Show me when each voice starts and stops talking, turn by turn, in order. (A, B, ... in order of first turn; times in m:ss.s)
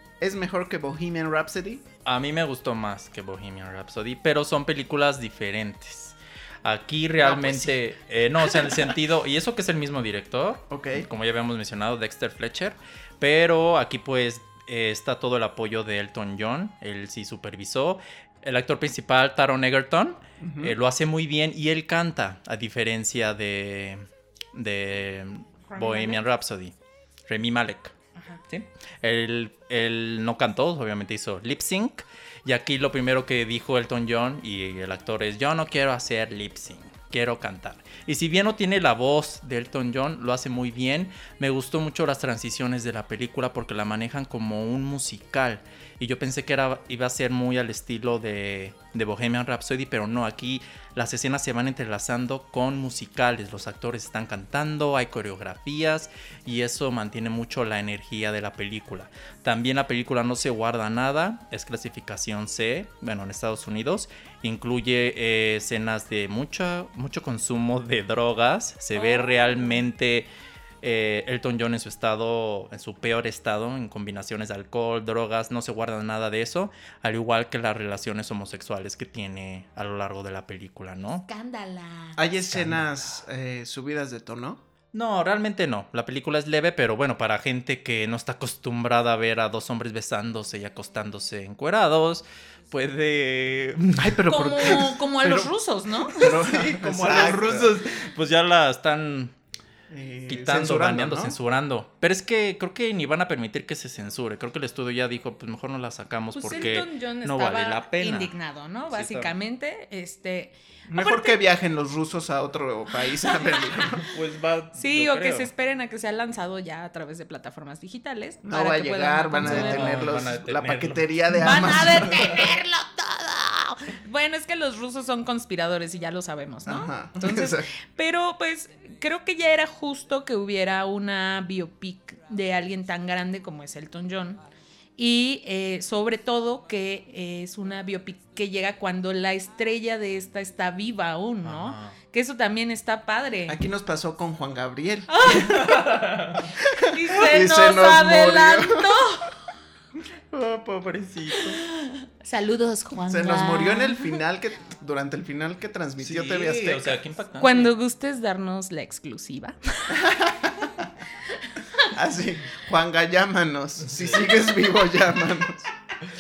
0:00.2-0:01.8 A
0:02.0-0:26.8 B
0:07.2-0:07.8 A
0:08.4-0:08.9 A
0:10.7-0:11.1 A
0:20.4-0:20.8 A
0:25.7-0:26.2 C
0:27.3-0:28.0 B
0:28.2-0:28.4 C
0:28.5-1:10.3 B
1:09.0-1:09.8 C
1:10.8-1:21.3 B
1:21.3-1:22.2 C
1:22.2-1:24.6 A
1:22.4-1:23.0 B
1:24.9-1:34.2 B
1:34.0-1:35.5 A
1:34.3-1:36.4 C
1:36.1-1:37.8 A
1:36.2-1:39.4 B
1:39.9-1:41.4 A
1:40.3-1:48.3 B
1:46.3-1:51.4 C
1:48.9-1:49.3 B
1:50.9-1:54.1 A
1:53.4-1:53.8 C
1:54.0-1:55.5 B
1:54.8-2:00.1 C
1:58.4-2:02.5 A
1:59.4-2:02.2 B
2:01.3-2:14.4 C
2:06.7-2:07.7 A
2:15.0-2:23.6 C
2:21.4-2:22.0 B
2:23.5-2:25.8 A
2:25.1-2:25.8 C
2:25.6-2:26.5 B
2:26.5-2:29.0 A
2:26.8-2:29.5 C
2:30.3-2:31.6 B
2:31.3-2:34.2 C
2:33.1-2:37.0 A
2:36.0-2:37.7 B
2:37.4-2:40.1 C
2:39.9-2:40.8 A
2:41.3-2:41.8 C
2:41.9-2:45.7 A
2:43.8-2:44.4 B